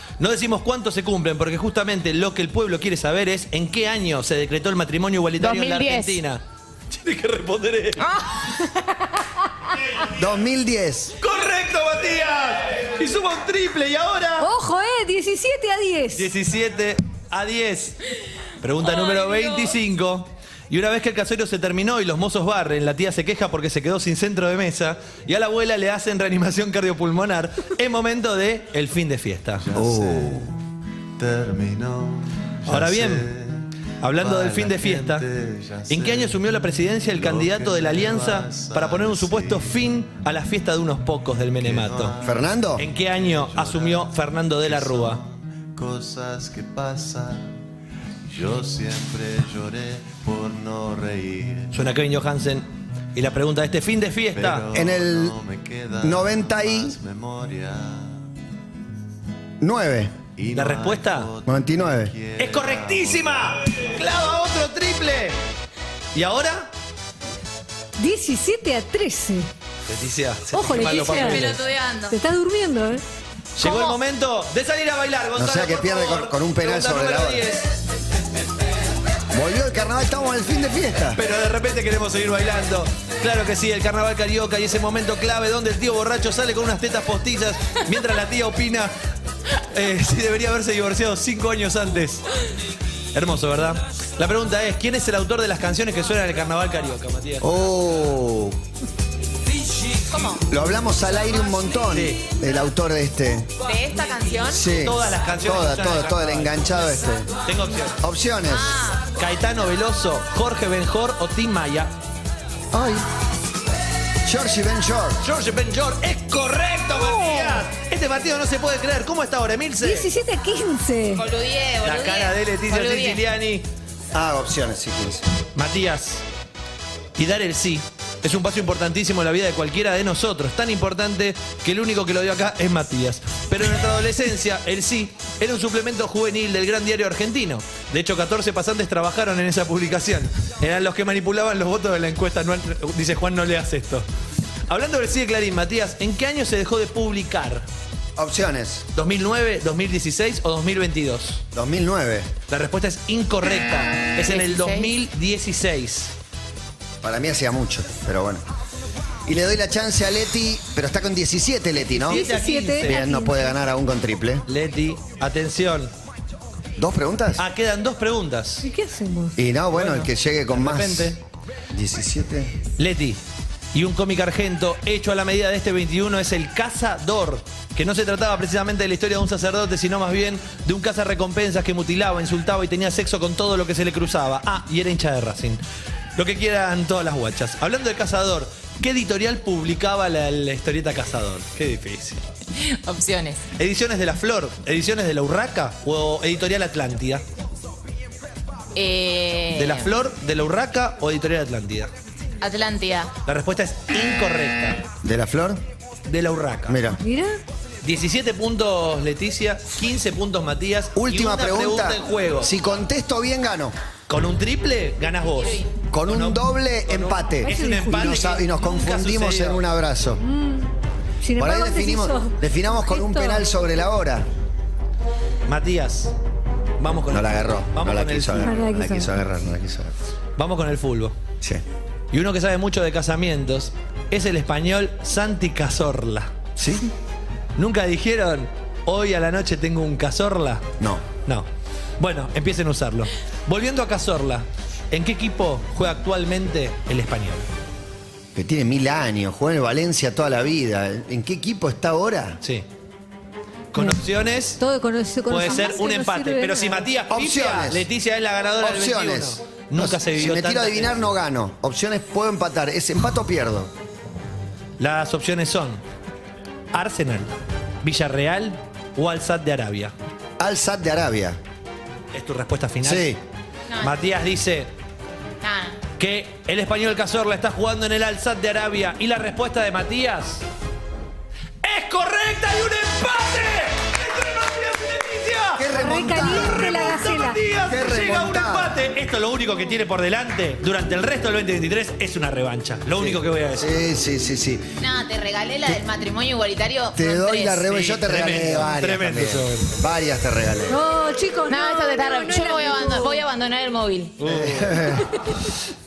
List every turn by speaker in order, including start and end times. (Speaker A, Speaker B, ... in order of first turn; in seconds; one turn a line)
Speaker A: 0.2-8.1
Speaker B: 5.4-6.2
Speaker B: 8.0-9.0
Speaker C: 10.1-11.2
Speaker A: 11.2-14.5
Speaker D: 14.4-16.3
Speaker A: 16.1-18.0
Speaker A: 18.6-29.7
Speaker B: 19.1-19.7
Speaker E: 29.6-30.6
Speaker C: 29.7-30.5
Speaker E: 31.2-36.4
Speaker A: 32.7-33.3
Speaker A: 34.0-35.3
Speaker A: 35.9-42.2
Speaker E: 37.1-39.9
Speaker E: 41.6-47.6
Speaker C: 42.2-42.9
Speaker A: 42.8-45.2
Speaker E: 48.3-51.7
Speaker A: 51.7-54.7
Speaker E: 54.3-58.2
Speaker C: 54.7-55.4
Speaker C: 56.0-57.0
Speaker C: 59.6-60.2
Speaker E: 60.4-63.7
Speaker A: 60.5-61.3
Speaker C: 61.5-62.1
Speaker A: 62.4-65.4
Speaker A: 66.1-66.7
Speaker D: 68.0-69.5
Speaker A: 69.9-71.6
Speaker D: 70.5-71.6
Speaker B: 70.5-72.2
Speaker D: 72.1-73.0
Speaker A: 73.6-77.7
Speaker B: 73.6-74.0
Speaker C: 75.3-77.5
Speaker C: 79.3-81.2
Speaker A: 81.2-88.9
Speaker A: 89.7-92.2
Speaker A: 93.1-97.5
Speaker C: 97.4-98.6
Speaker B: 100.1-100.5
Speaker C: 100.5-103.5
Speaker A: 101.9-102.2
Speaker B: 103.6-104.7
Speaker C: 104.5-107.3
Speaker A: 104.8-106.7
Speaker A: 107.5-108.0
Speaker C: 108.0-108.8
Speaker B: 108.5-109.0
Speaker A: 109.2-111.9
Speaker C: 112.7-113.0
Speaker C: 114.2-115.2
Speaker A: 115.2-120.1
Speaker D: 117.0-117.6
Speaker D: 119.8-121.3
Speaker B: 121.2-123.2
Speaker A: 121.8-123.7
Speaker C: 124.1-125.3
Speaker A: 125.6-126.2
Speaker A: 127.2-144.1
Speaker A: 144.7-147.7
Speaker C: 148.2-148.8
Speaker A: 148.9-151.4
Speaker C: 151.5-152.3
Speaker A: 152.5-156.1
Speaker B: 154.3-154.9
Speaker C: 157.0-158.4
Speaker C: 159.3-162.2
Speaker A: 161.9-163.0
Speaker D: 162.1-163.6
Speaker C: 162.8-164.4
Speaker A: 164.5-165.9
Speaker C: 166.8-167.4
Speaker A: 167.4-168.7
Speaker D: 168.6-169.4
Speaker C: 169.4-171.2
Speaker A: 169.7-171.2
Speaker C: 171.7-172.6
Speaker A: 172.8-173.2
Speaker A: 173.7-185.6
Speaker A: 186.2-192.2
Speaker B: 192.6-193.4
Speaker A: 193.6-197.2
Speaker B: 198.8-199.9
Speaker A: 199.5-201.9
Speaker B: 202.4-203.1
Speaker A: 203.3-204.8
Speaker C: 205.0-205.6
Speaker A: 206.1-206.9
Speaker C: 206.7-207.0
Speaker D: 207.0-207.4
Speaker A: 207.8-212.5
Speaker C: 210.9-213.8
Speaker A: 214.1-219.6
Speaker B: 215.4-215.7
Speaker C: 215.9-220.2
Speaker D: 217.4-218.2
Speaker D: 220.2-220.7
Speaker D: 221.2-223.5
Speaker C: 221.4-224.3
Speaker A: 225.5-226.1
Speaker A: 226.8-228.8
Speaker C: 227.1-229.9
Speaker D: 228.4-229.1
Speaker A: 230.4-231.2
Speaker A: 232.1-236.3
Speaker C: 236.6-236.9
Speaker A: 237.6-240.7
Speaker C: 240.8-241.1
Speaker A: 242.0-247.5
Speaker C: 248.3-252.4
Speaker A: 253.7-254.6
Speaker D: 254.6-256.9
Speaker A: 255.3-261.0
Speaker C: 257.1-257.9
Speaker C: 258.6-263.7
Speaker A: 264.8-265.8
Speaker A: 266.7-267.3
Speaker A: 267.8-269.9
Speaker C: 270.4-271.4
Speaker A: 272.1-273.2
Speaker C: 272.8-273.2
Speaker B: 273.7-273.9
Speaker A: 273.8-274.7
Speaker B: 275.4-275.8
Speaker A: 276.0-280.4
Speaker A: 281.6-293.7
Speaker C: 285.6-286.9
Speaker D: 285.7-287.4
Speaker C: 287.7-288.8
Speaker C: 293.0-294.7
Speaker B: 294.8-297.7
Speaker C: 297.0-300.8
Speaker A: 297.7-299.7
Speaker D: 300.7-303.2
Speaker B: 301.5-304.2
Speaker A: 304.2-305.0
Speaker C: 304.2-305.1